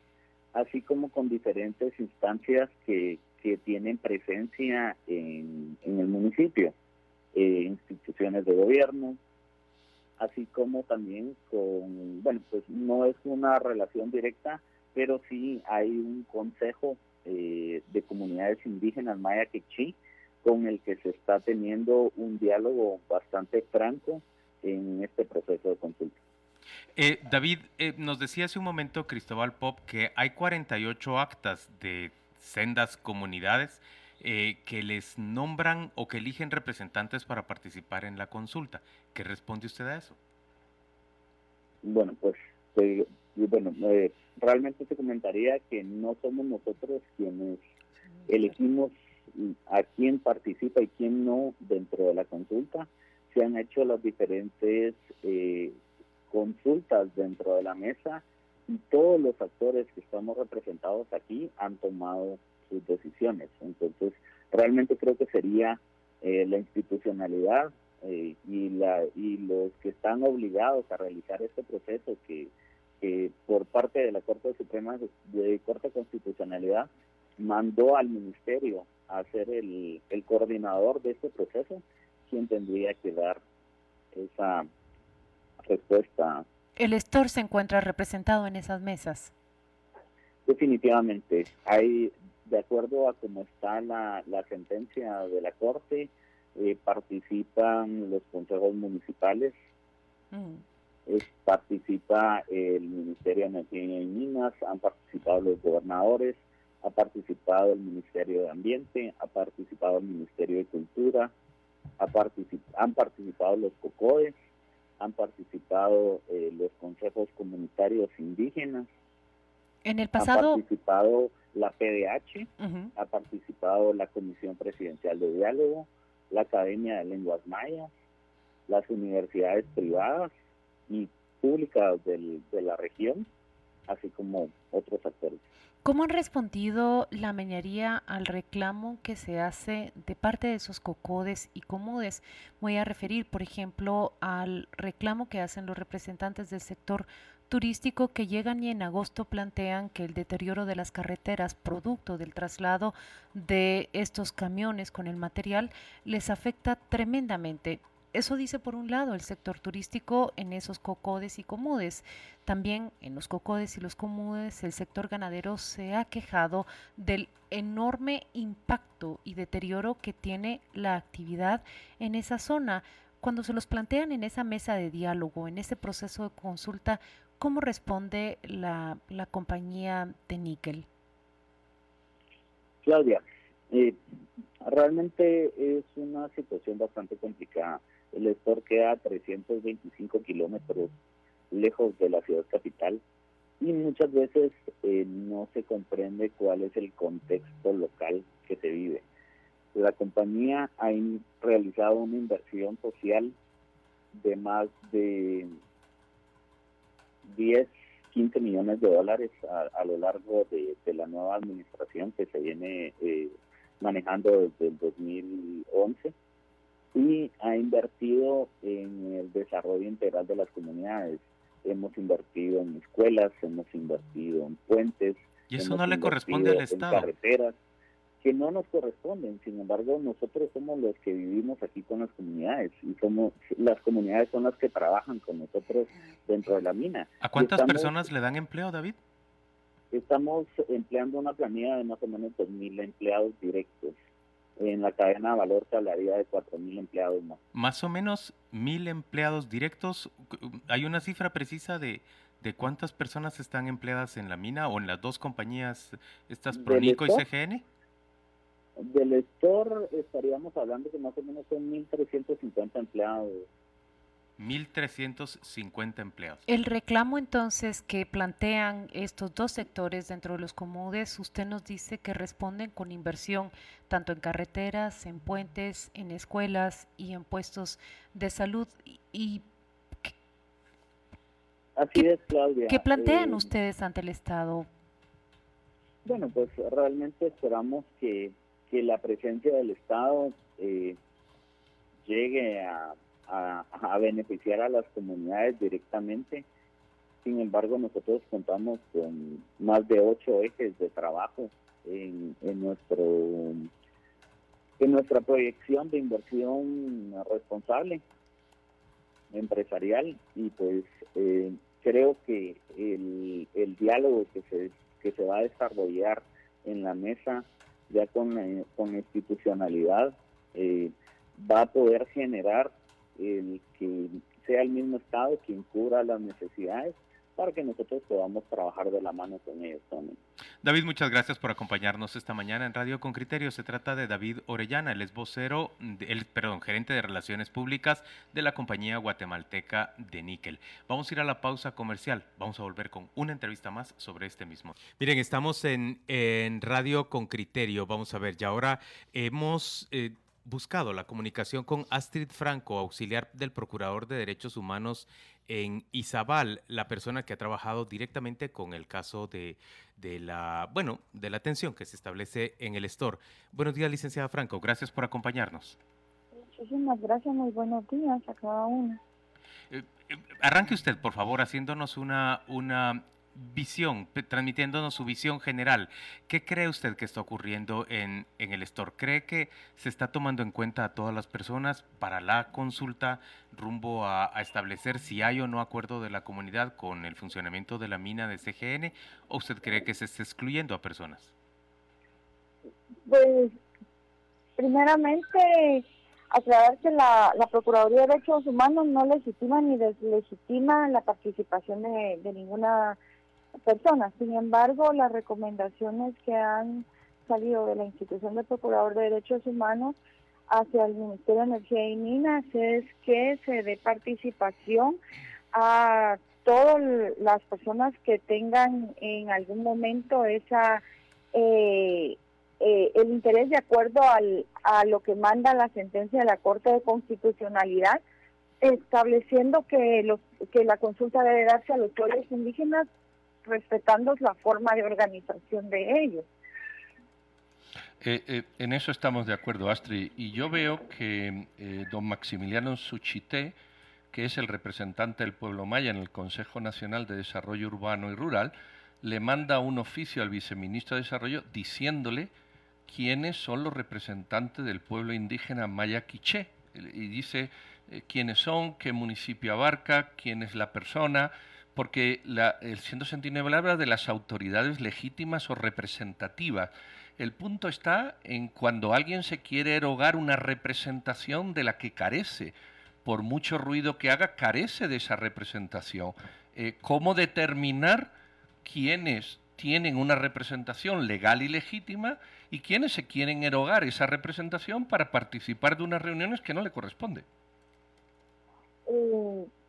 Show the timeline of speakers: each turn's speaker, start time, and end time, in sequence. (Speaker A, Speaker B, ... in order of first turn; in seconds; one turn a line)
Speaker A: 0.5-6.7
Speaker A: 7.3-9.2
Speaker A: 10.2-26.2
Speaker B: 26.9-40.2
Speaker A: 41.8-47.6
Speaker A: 48.3-55.8
Speaker A: 56.3-83.4
Speaker A: 84.1-84.7
Speaker A: 85.7-86.4
Speaker C: 86.8-89.3
Speaker A: 90.5-99.5
Speaker C: 100.3-100.6
Speaker A: 101.1-111.3
Speaker A: 112.0-114.3
Speaker A: 115.0-118.9
Speaker C: 119.8-120.6
Speaker A: 120.2-127.9
Speaker C: 122.6-122.9
Speaker A: 128.7-130.3
Speaker A: 130.9-133.3
Speaker A: 133.9-135.4
Speaker C: 135.8-180.8
Speaker A: 182.8-184.0
Speaker A: 184.6-190.9
Speaker A: 191.5-193.0
Speaker A: 193.6-199.0
Speaker A: 199.7-203.3
Speaker A: 204.1-205.5
Speaker A: 207.2-216.1
Speaker A: 216.9-227.6
Speaker B: 225.5-227.1
Speaker A: 228.2-237.9
Speaker B: 237.2-239.0
Speaker A: 239.9-243.9
Speaker A: 244.6-247.4
Speaker B: 247.5-257.6
Speaker A: 256.5-257.2
Speaker A: 258.8-263.5
Speaker B: 264.4-266.4
Speaker C: 266.5-279.4
Speaker A: 281.8-283.5
Speaker C: 282.7-284.7
Speaker A: 286.0-291.0
Speaker A: 292.0-296.4
Speaker A: 297.2-303.7
Speaker A: 304.8-308.0
Speaker A: 309.3-330.2
Speaker B: 330.6-365.8
Speaker D: 366.4-369.0
Speaker B: 369.7-391.3
Speaker D: 393.0-393.6
Speaker D: 394.6-403.0
Speaker D: 403.6-409.9
Speaker D: 410.5-415.0
Speaker D: 415.5-420.8
Speaker D: 421.3-428.0
Speaker D: 428.6-432.9
Speaker D: 433.4-436.3
Speaker E: 438.0-443.5
Speaker E: 444.1-452.3
Speaker E: 452.9-472.5
Speaker E: 473.0-478.1
Speaker E: 478.6-487.2
Speaker D: 488.9-489.5